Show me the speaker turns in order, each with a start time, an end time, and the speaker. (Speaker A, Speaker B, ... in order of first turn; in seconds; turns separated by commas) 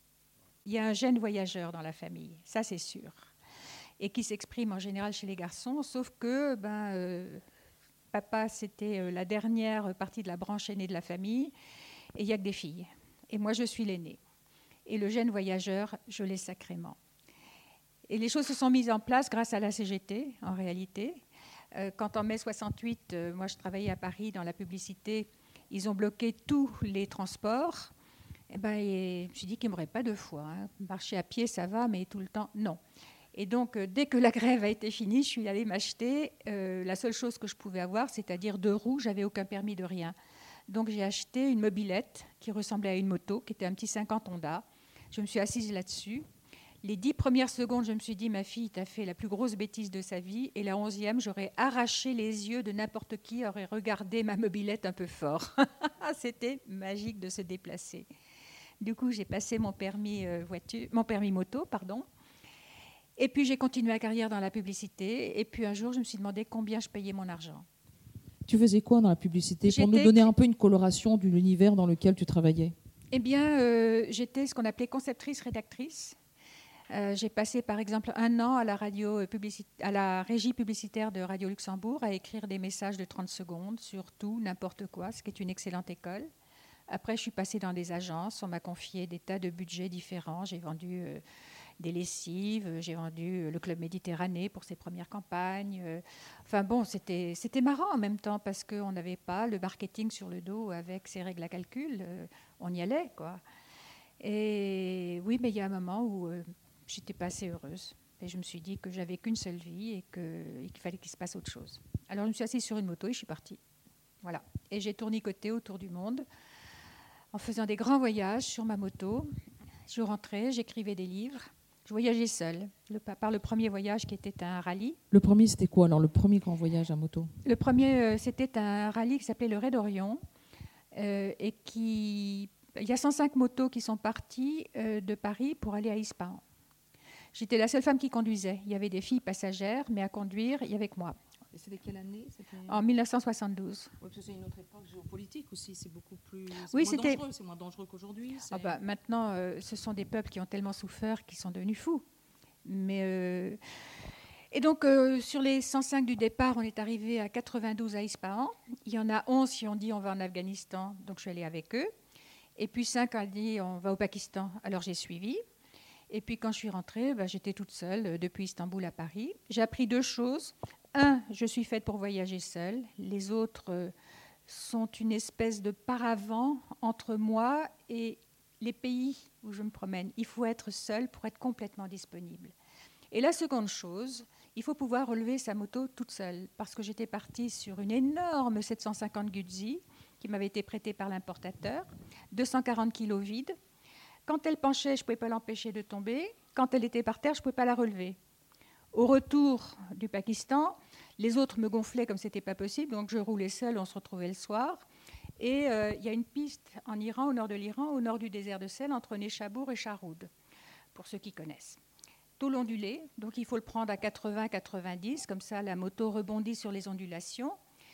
Speaker A: 0.7-3.3, Speaker A: 4.0-7.4, Speaker A: 8.1-11.6, Speaker A: 12.2-14.2, Speaker A: 14.9-17.0, Speaker A: 18.1-21.2, Speaker A: 21.8-27.9, Speaker A: 28.5-32.8, Speaker A: 33.3-40.1, Speaker A: 40.7-46.3, Speaker A: 46.8-58.1, Speaker A: 58.8-62.1, Speaker A: 63.2-67.7, Speaker B: 68.5-72.8, Speaker A: 69.7-70.3, Speaker A: 73.1-76.2, Speaker A: 76.9-86.3, Speaker A: 86.9-91.2, Speaker A: 91.8-103.4, Speaker A: 104.2-113.6, Speaker A: 114.2-116.2, Speaker A: 117.3-119.3, Speaker A: 119.9-125.0, Speaker B: 125.1-127.3, Speaker A: 127.4-130.2, Speaker A: 130.9-136.4, Speaker A: 137.3-141.2, Speaker B: 141.5-142.8, Speaker A: 142.7-143.9, Speaker B: 144.0-148.8, Speaker A: 146.7-147.2, Speaker A: 148.5-152.0, Speaker A: 152.7-153.6, Speaker A: 154.5-161.9, Speaker A: 162.6-165.4, Speaker A: 166.1-173.9, Speaker A: 174.5-182.6, Speaker A: 183.1-193.5, Speaker A: 194.3-198.2, Speaker A: 198.9-204.8, Speaker A: 205.4-210.3, Speaker A: 210.9-211.8, Speaker A: 212.4-217.6